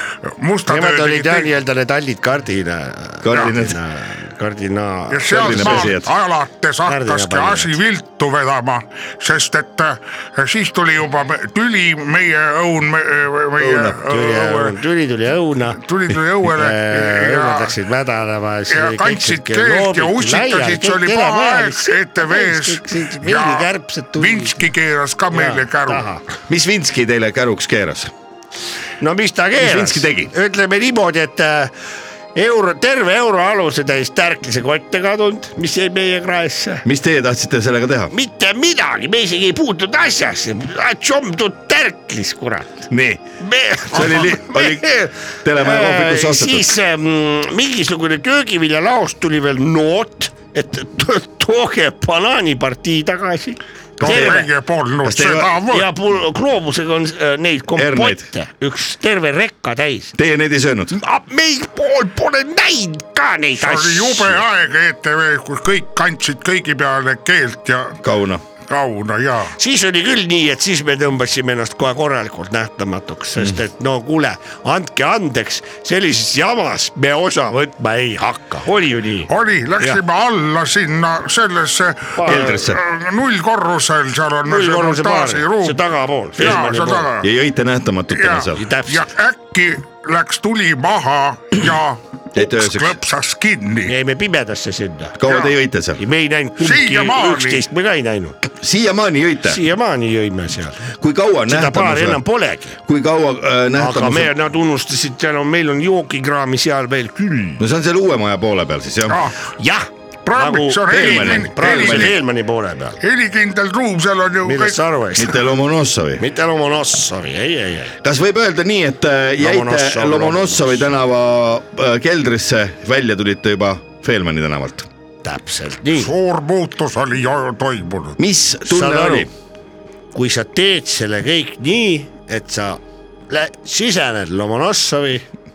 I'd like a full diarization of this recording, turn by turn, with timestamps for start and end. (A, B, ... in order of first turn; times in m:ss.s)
0:00.2-0:01.5 A
0:00.7-0:05.9 B
0:03.2-0:03.8 C
0:03.3-0:03.6 A
0:05.1-0:14.8 A
0:05.3-0:06.1 C
0:06.8-0:07.7 B
0:13.6-0:14.0 C
0:14.0-0:15.8 B
0:15.8-0:17.7 A
0:16.5-0:24.7 B
0:18.7-0:26.0 A
0:25.3-0:26.2 B
0:26.5-0:28.1 C
0:29.0-0:31.7 B
0:29.6-0:30.3 C
0:32.3-0:36.8 B
0:36.8-0:38.1 C
0:38.1-0:42.8 B
0:42.9-0:43.2 C
0:43.4-0:54.5 B
0:43.9-0:44.9 C
0:45.4-0:46.7 C
0:54.0-0:55.9 A
0:54.0-0:54.4 C
0:55.0-0:55.5 C
0:55.6-1:00.1 B
0:57.7-0:58.3 C
1:00.1-1:00.9 C
1:00.9-1:04.4 B
1:03.6-1:08.0 A
1:08.0-1:08.4 C
1:08.7-1:09.6 A
1:09.6-1:20.0 B
1:19.3-1:25.8 A
1:22.2-1:22.6 B
1:22.2-1:22.8 C
1:24.5-1:27.1 B
1:26.4-1:27.3 A
1:27.2-1:28.6 C
1:28.1-1:33.9 A
1:28.5-1:29.0 B
1:32.3-1:33.0 C
1:33.9-1:35.2 B
1:35.1-1:36.0 C
1:35.2-1:35.5 A
1:36.0-1:38.4 B
1:36.6-1:37.6 A
1:38.6-1:39.6 C
1:39.4-1:40.8 B
1:40.9-1:42.2 C
1:41.5-1:42.8 B
1:42.8-1:44.3 C
1:43.7-1:47.6 B
1:47.6-1:49.2 C
1:49.1-1:49.5 A
1:49.6-1:53.0 B
1:50.2-1:52.2 A
1:50.9-1:52.2 C
1:53.0-1:54.8 A
1:54.4-1:55.4 B
1:55.1-1:56.2 C
1:56.2-1:58.0 B
1:58.0-2:04.9 C
1:59.4-2:00.9 B
2:05.2-2:06.1 B
2:06.0-2:08.2 A
2:08.2-2:09.3 C
2:08.7-2:09.3 B
2:10.1-2:15.2 B